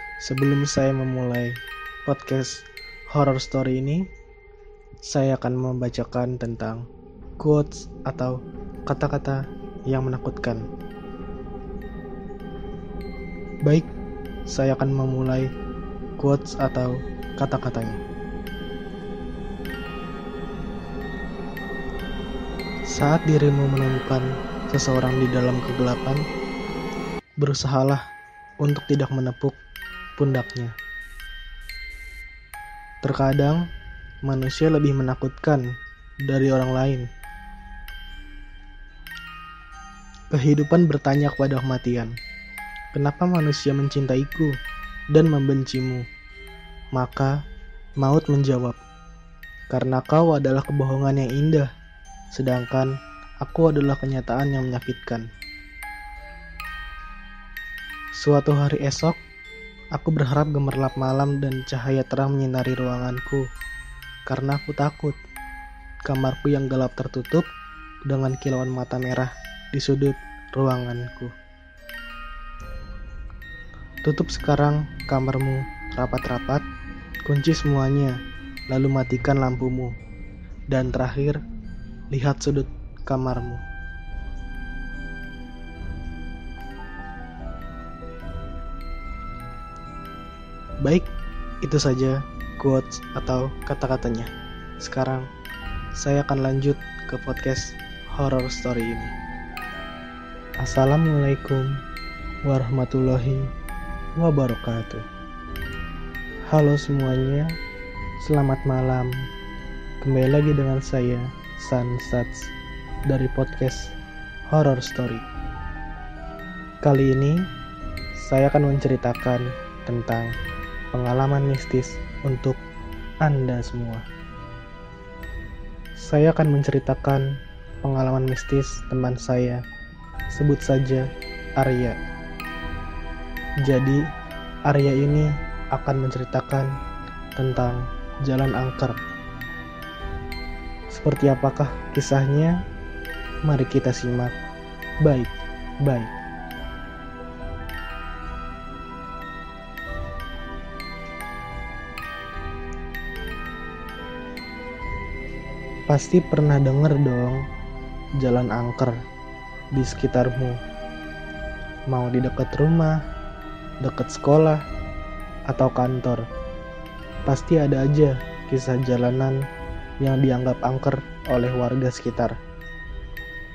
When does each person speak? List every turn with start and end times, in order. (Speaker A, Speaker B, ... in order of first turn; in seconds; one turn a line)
Speaker A: 0.2-4.0
Speaker A: 5.0-6.8
Speaker A: 7.4-10.6
Speaker A: 14.5-15.5
Speaker A: 16.2-18.0
Speaker A: 22.9-26.2
Speaker A: 27.4-28.0
Speaker A: 28.6-29.6
Speaker A: 30.2-30.7
Speaker A: 33.0-33.6
Speaker A: 34.2-35.7
Speaker A: 36.2-37.1
Speaker A: 40.3-42.1
Speaker A: 42.9-44.5
Speaker A: 45.1-46.0
Speaker A: 46.9-47.4
Speaker A: 48.0-48.8
Speaker A: 49.7-51.7
Speaker A: 52.3-55.3
Speaker A: 58.2-59.2
Speaker A: 59.9-63.4
Speaker A: 64.2-65.2
Speaker A: 66.0-67.5
Speaker A: 68.0-71.3
Speaker A: 74.0-76.6
Speaker A: 77.2-78.2
Speaker A: 78.7-79.9
Speaker A: 80.7-81.4
Speaker A: 82.1-83.6
Speaker A: 91.6-94.3
Speaker A: 94.8-95.3
Speaker A: 96.0-99.1
Speaker A: 100.6-101.8
Speaker A: 102.5-103.5
Speaker A: 104.2-105.0
Speaker A: 106.5-107.5
Speaker A: 108.2-109.2
Speaker A: 110.0-112.5
Speaker A: 113.1-113.9
Speaker A: 114.5-115.2
Speaker A: 116.8-117.4
Speaker A: 118.2-120.3
Speaker A: 120.9-122.6
Speaker A: 123.2-124.0
Speaker A: 126.0-127.3
Speaker A: 127.8-129.6
Speaker A: 130.3-131.1
Speaker A: 131.6-132.0
Speaker A: 133.6-134.0
Speaker A: 134.7-136.7
Speaker A: 137.4-139.0
Speaker A: 140.9-142.6
Speaker A: 143.4-144.3
Speaker A: 145.0-145.3
Speaker A: 145.8-146.1
Speaker A: 155.9-157.4
Speaker A: 158.2-159.0
Speaker A: 159.7-160.6
Speaker A: 161.9-163.0
Speaker A: 163.8-164.6
Speaker A: 165.5-166.2
Speaker A: 167.2-169.4
Speaker A: 170.0-172.4